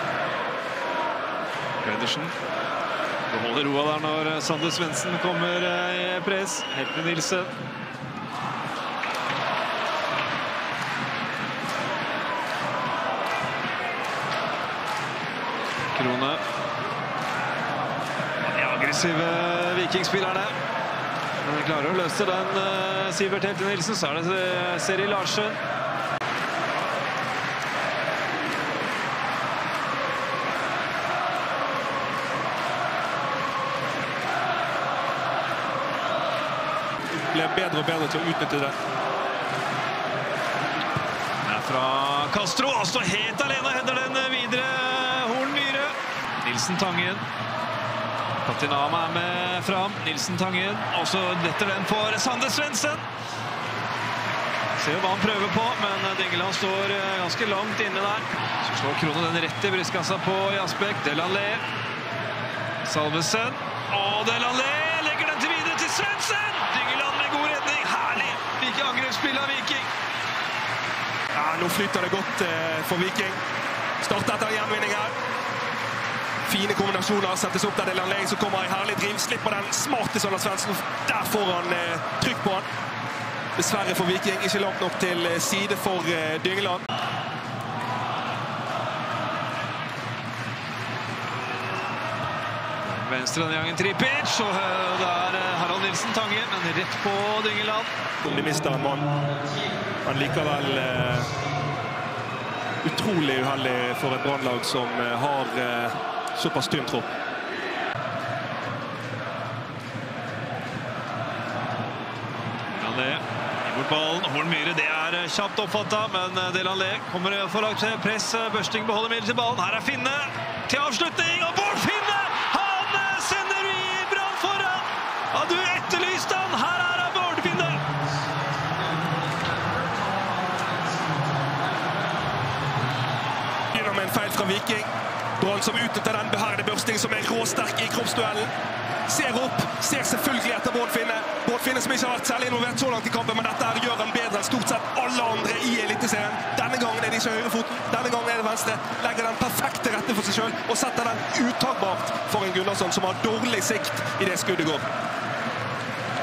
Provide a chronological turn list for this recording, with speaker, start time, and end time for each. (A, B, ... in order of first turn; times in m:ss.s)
0:01.8-0:02.3 A
0:03.3-0:07.5 A
0:15.9-0:16.4 A
0:18.4-0:20.6 A
0:21.4-0:25.6 A
0:37.1-0:38.8 B
0:41.4-0:47.3 A
0:48.4-0:53.1 A
0:54.8-1:01.6 A
1:02.8-1:09.9 A
1:11.4-1:13.4 B
1:14.0-1:15.1 B
1:16.5-1:22.7 B
1:23.6-1:26.9 B
1:32.8-1:37.9 A
1:38.2-1:39.2 B
1:40.0-1:41.3 B
1:42.8-1:47.1 B
1:52.7-2:11.8 A
2:13.7-2:14.9 B
2:15.4-2:18.5 B
2:19.1-2:34.8 B